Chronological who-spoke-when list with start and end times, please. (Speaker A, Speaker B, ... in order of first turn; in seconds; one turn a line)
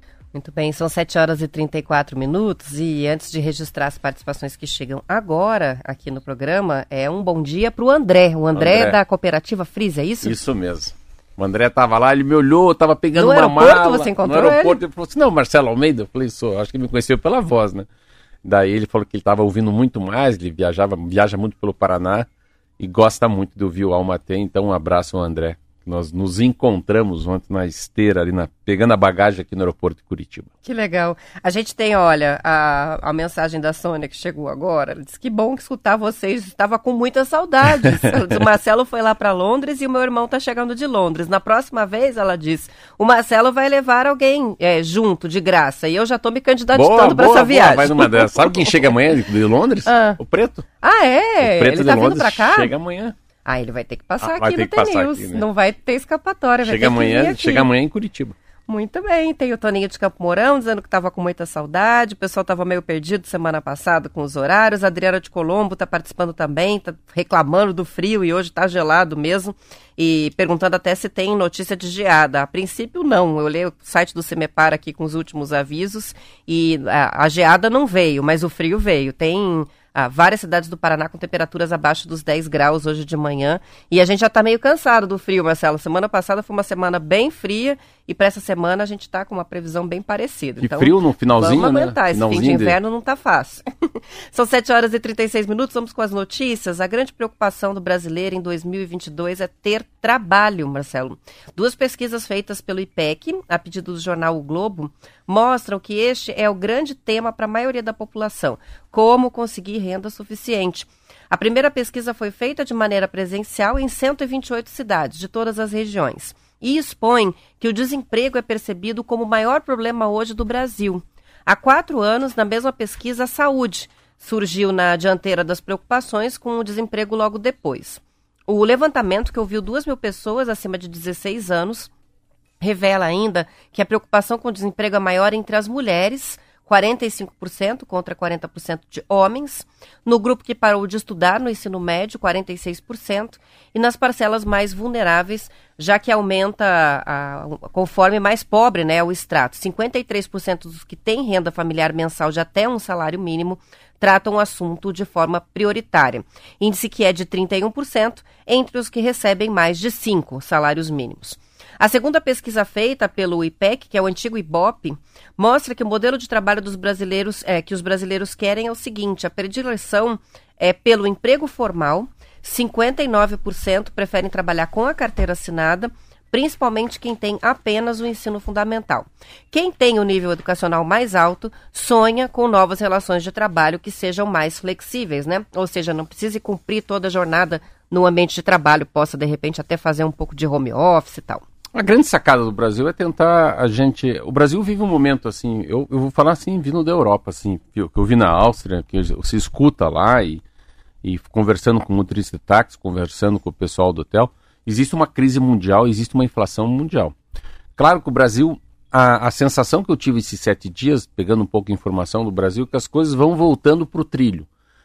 Speaker A: 0.3-10.3
Speaker B: 8.5-9.0
Speaker B: 10.2-17.9
Speaker A: 13.2-14.8
Speaker B: 18.4-22.2
Speaker B: 22.8-30.5
Speaker A: 30.6-48.9
Speaker B: 37.8-38.4
Speaker B: 46.7-50.6
Speaker A: 49.9-50.2
Speaker A: 50.8-52.7
Speaker B: 51.4-53.1
Speaker A: 53.4-57.7
Speaker B: 54.2-55.4
Speaker B: 56.6-58.3
Speaker A: 58.7-93.6
Speaker B: 90.6-92.8
Speaker A: 94.3-131.9
Speaker A: 132.6-191.4
Speaker B: 191.7-200.4
Speaker B: 201.0-207.1
Speaker B: 207.8-214.5